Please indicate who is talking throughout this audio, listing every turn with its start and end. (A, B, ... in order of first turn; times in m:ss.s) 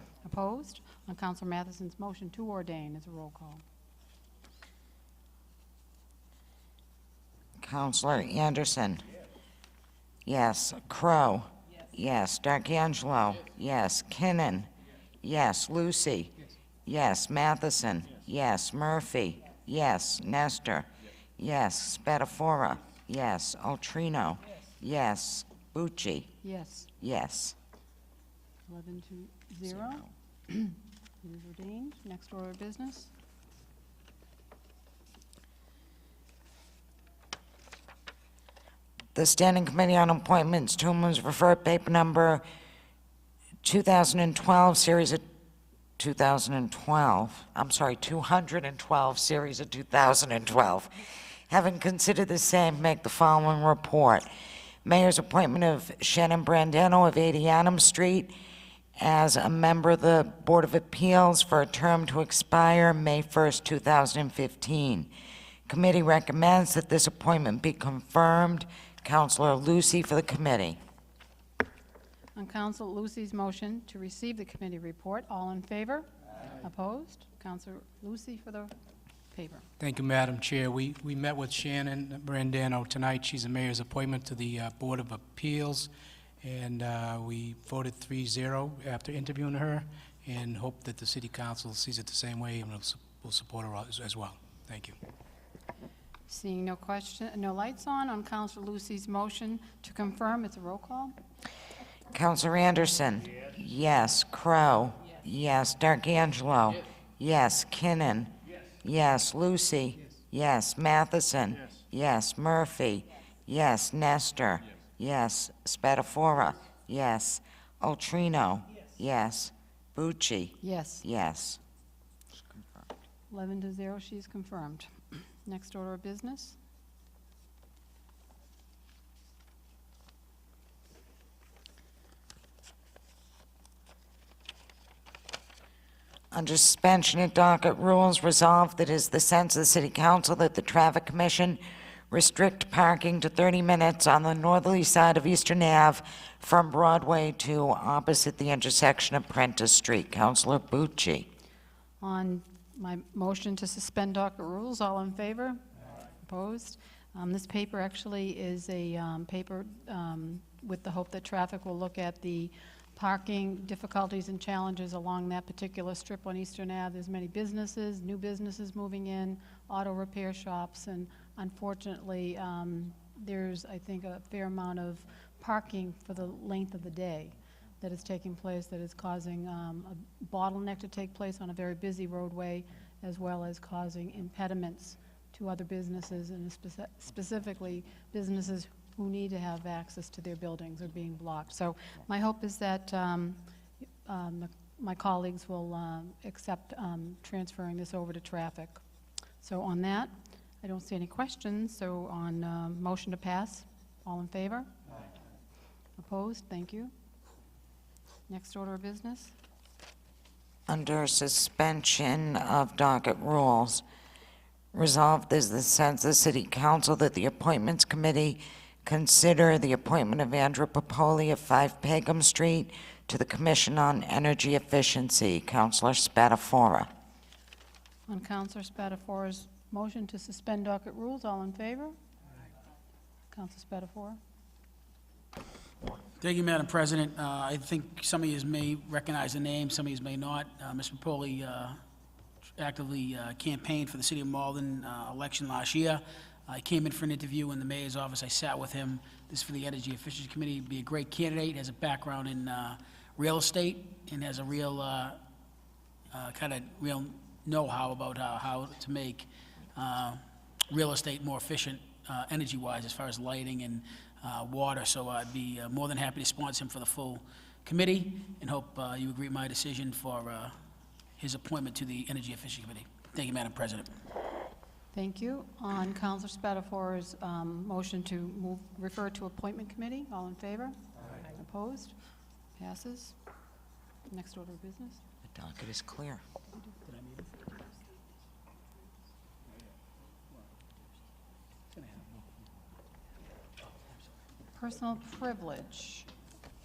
0:00.2-0:03.6 A
0:07.6-0:09.0 B
0:10.3-0:14.7 B
0:15.2-0:16.3 B
0:16.9-0:26.3 B
0:26.4-0:26.9 A
0:27.0-0:27.6 B
0:28.7-0:33.1 A
0:39.2-0:42.4 B
0:43.6-0:45.2 B
0:46.0-0:51.0 B
0:51.5-0:54.3 B
0:54.8-0:58.3 B
0:59.0-1:05.1 B
1:05.7-1:10.8 B
1:12.4-1:18.7 A
1:19.3-1:19.6 A
1:19.8-1:35.0 C
1:36.3-1:41.2 A
1:42.1-1:48.3 B
1:48.8-2:01.6 B
2:00.6-2:01.0 A
2:03.3-2:06.6 A
2:16.3-2:21.6 B
2:22.1-2:31.3 B
2:32.0-2:35.6 A
2:36.2-3:13.4 A
3:14.0-3:18.8 A
3:19.4-3:24.7 A
3:26.0-3:26.9 A
3:28.3-3:29.3 A
3:30.7-3:33.8 B
3:34.7-3:46.9 B
3:48.1-3:52.0 A
3:53.3-3:54.2 A
3:56.2-4:01.8 D
4:02.6-4:15.2 D
4:16.1-4:30.6 D
4:31.2-4:33.9 D
4:34.9-4:42.0 A
4:42.6-4:43.2 A
4:44.1-4:45.0 A
4:45.2-4:46.2 B
4:46.8-4:47.6 D
4:51.8-4:52.1 D
4:54.6-4:56.1 A